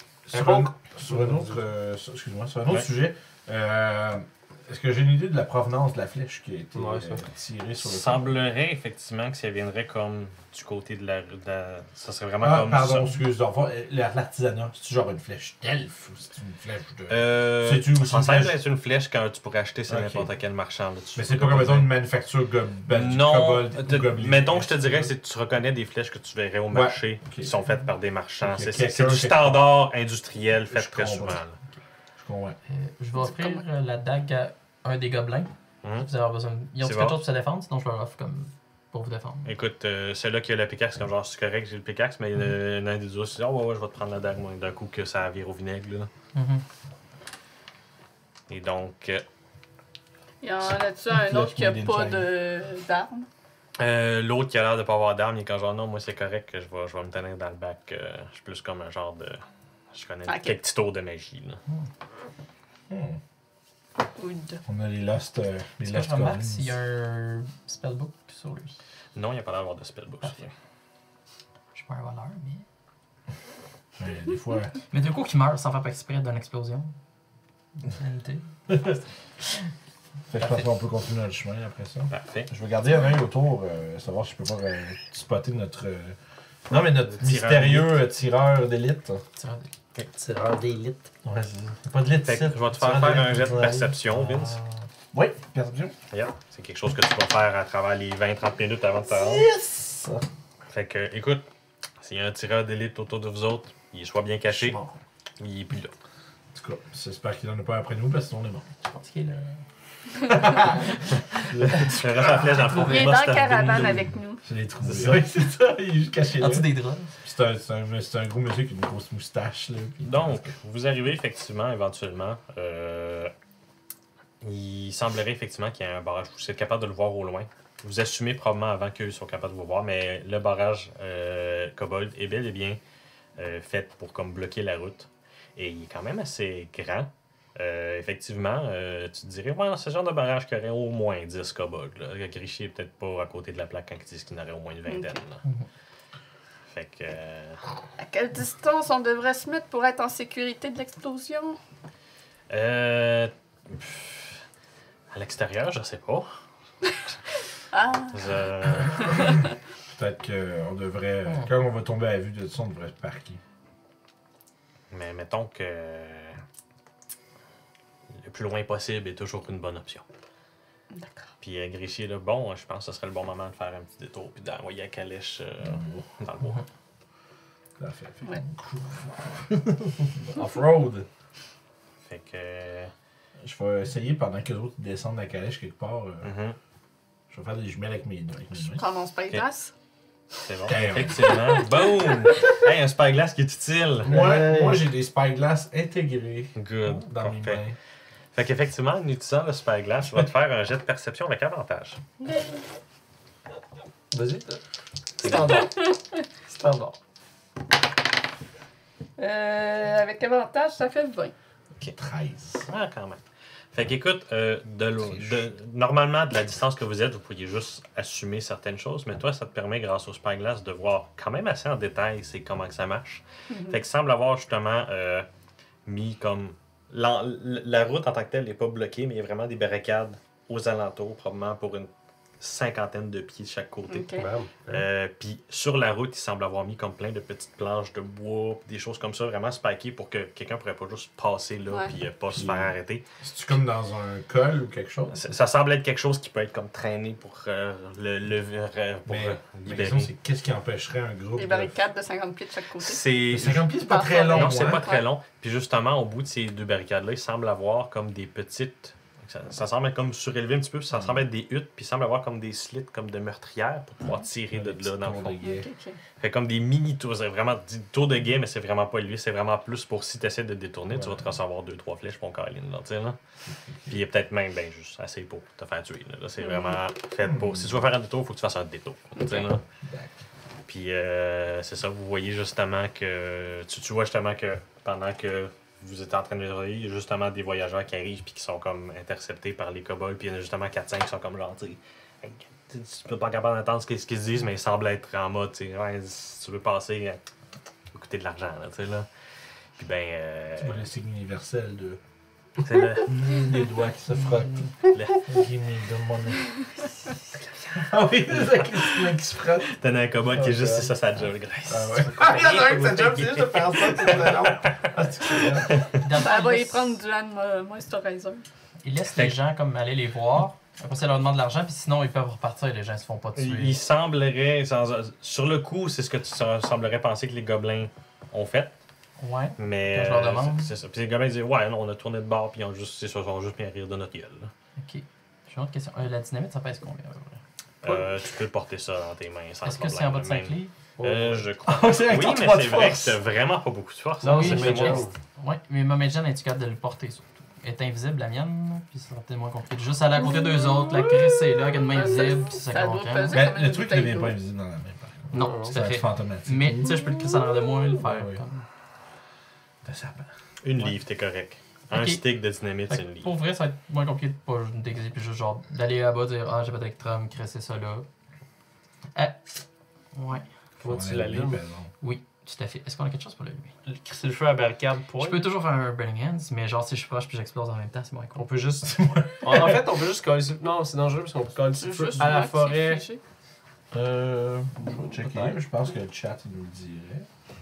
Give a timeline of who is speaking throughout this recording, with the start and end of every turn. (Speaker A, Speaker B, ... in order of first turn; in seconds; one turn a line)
Speaker A: 0.3-8.3
Speaker B: 0.3-1.6
Speaker B: 6.7-7.2
Speaker C: 7.8-13.1
Speaker A: 12.4-18.5
Speaker C: 17.1-21.9
Speaker A: 19.9-20.3
Speaker A: 21.1-25.1
Speaker C: 22.9-31.6
Speaker A: 26.7-27.5
Speaker A: 28.4-29.7
Speaker A: 30.7-31.4
Speaker A: 32.2-32.6
Speaker D: 32.7-39.5
Speaker E: 33.1-33.6
Speaker C: 35.8-36.1
Speaker C: 36.8-37.2
Speaker C: 39.4-46.1
Speaker D: 46.3-46.6
Speaker C: 48.5-49.2
Speaker E: 50.4-53.3
Speaker A: 50.7-52.3
Speaker C: 53.8-61.6
Speaker E: 60.2-60.5
Speaker A: 62.9-63.2
Speaker E: 64.2-64.6
Speaker A: 64.7-66.7
Speaker D: 65.8-68.8
Speaker C: 69.1-70.5
Speaker D: 71.7-72.6
Speaker A: 74.0-74.8
Speaker D: 74.9-76.9
Speaker D: 77.8-79.0
Speaker A: 80.3-86.2
Speaker D: 80.4-80.6
Speaker C: 82.1-82.5
Speaker A: 86.7-89.2
Speaker C: 87.1-88.0
Speaker D: 89.4-89.7
Speaker B: 90.1-91.1
Speaker A: 91.2-94.0
Speaker C: 92.2-94.6
Speaker D: 94.1-94.8
Speaker A: 95.1-95.9
Speaker C: 96.1-99.5
Speaker A: 99.1-100.2
Speaker C: 100.7-101.4
Speaker C: 102.0-104.8
Speaker A: 104.5-105.0
Speaker C: 105.4-105.9
Speaker A: 106.5-108.7
Speaker D: 108.9-109.5
Speaker D: 110.3-111.0
Speaker A: 110.3-110.8
Speaker A: 111.5-112.4
Speaker C: 111.7-114.1
Speaker D: 112.6-113.1
Speaker E: 112.8-114.4
Speaker A: 114.4-120.5
Speaker C: 114.8-115.2
Speaker D: 116.4-117.1
Speaker C: 120.0-123.3
Speaker C: 124.4-132.8
Speaker C: 133.4-145.4
Speaker E: 144.8-145.2
Speaker C: 146.7-147.6
Speaker E: 148.0-151.6
Speaker C: 152.5-154.4
Speaker C: 155.1-156.3
Speaker E: 157.7-159.3
Speaker C: 158.1-159.3
Speaker A: 159.9-163.4
Speaker C: 164.9-166.4
Speaker C: 168.2-170.0
Speaker E: 170.9-171.3
Speaker C: 171.4-176.6
Speaker A: 175.6-176.1
Speaker A: 177.8-181.1
Speaker C: 182.0-182.9
Speaker A: 183.4-186.3
Speaker C: 186.2-186.6
Speaker A: 187.3-188.8
Speaker E: 188.7-189.7
Speaker C: 190.4-194.2
Speaker A: 190.7-191.4
Speaker B: 194.0-194.8
Speaker A: 194.0-197.8
Speaker C: 196.6-197.6
Speaker C: 198.3-202.0
Speaker B: 204.1-204.6
Speaker B: 205.2-205.8
Speaker C: 205.2-205.6
Speaker B: 206.5-206.9
Speaker E: 209.2-211.3
Speaker A: 211.9-212.7
Speaker C: 212.7-213.2
Speaker C: 213.7-225.3
Speaker A: 215.0-215.4
Speaker E: 223.5-223.8
Speaker C: 225.8-234.1
Speaker E: 233.9-234.3
Speaker B: 234.1-234.8
Speaker C: 234.7-243.0
Speaker A: 242.3-245.3
Speaker C: 245.1-250.1
Speaker A: 249.1-251.8
Speaker E: 251.3-253.0
Speaker C: 252.8-253.7
Speaker A: 253.3-254.9
Speaker E: 253.8-255.0
Speaker C: 254.2-265.4
Speaker A: 260.9-261.2
Speaker A: 264.5-265.7
Speaker E: 265.4-266.0
Speaker C: 266.2-273.2
Speaker A: 270.9-271.3
Speaker C: 273.9-279.6
Speaker E: 276.4-276.8
Speaker A: 277.2-277.7
Speaker E: 279.1-279.5
Speaker A: 279.8-280.1
Speaker C: 280.7-297.2
Speaker C: 297.9-299.1
Speaker C: 299.8-300.8
Speaker A: 300.6-302.0
Speaker C: 302.6-303.2
Speaker A: 303.0-306.5
Speaker C: 304.9-305.2
Speaker A: 307.8-309.7
Speaker C: 309.7-316.0
Speaker B: 310.3-310.9
Speaker A: 311.7-315.8
Speaker B: 313.9-314.2
Speaker D: 315.9-317.0
Speaker E: 316.1-318.4
Speaker D: 318.8-323.8
Speaker C: 323.3-328.8
Speaker D: 329.2-330.7
Speaker C: 329.6-334.5
Speaker D: 334.8-337.4
Speaker C: 337.8-345.1
Speaker D: 339.6-340.7
Speaker B: 341.0-341.5
Speaker A: 341.6-343.2
Speaker B: 344.2-345.1
Speaker D: 344.3-353.5
Speaker E: 351.9-354.4
Speaker A: 353.3-357.0
Speaker D: 355.3-358.6
Speaker B: 355.3-355.8
Speaker A: 358.0-358.4
Speaker A: 359.8-360.3
Speaker C: 360.6-363.3
Speaker D: 361.9-362.2
Speaker D: 362.9-368.1
Speaker D: 369.1-369.5
Speaker D: 370.1-370.4
Speaker B: 370.8-371.6
Speaker A: 370.8-371.9
Speaker D: 372.0-373.7
Speaker B: 373.8-375.5
Speaker D: 375.2-378.4
Speaker B: 378.4-383.0
Speaker A: 378.8-379.8
Speaker E: 381.8-383.2
Speaker A: 383.9-387.3
Speaker B: 385.1-385.6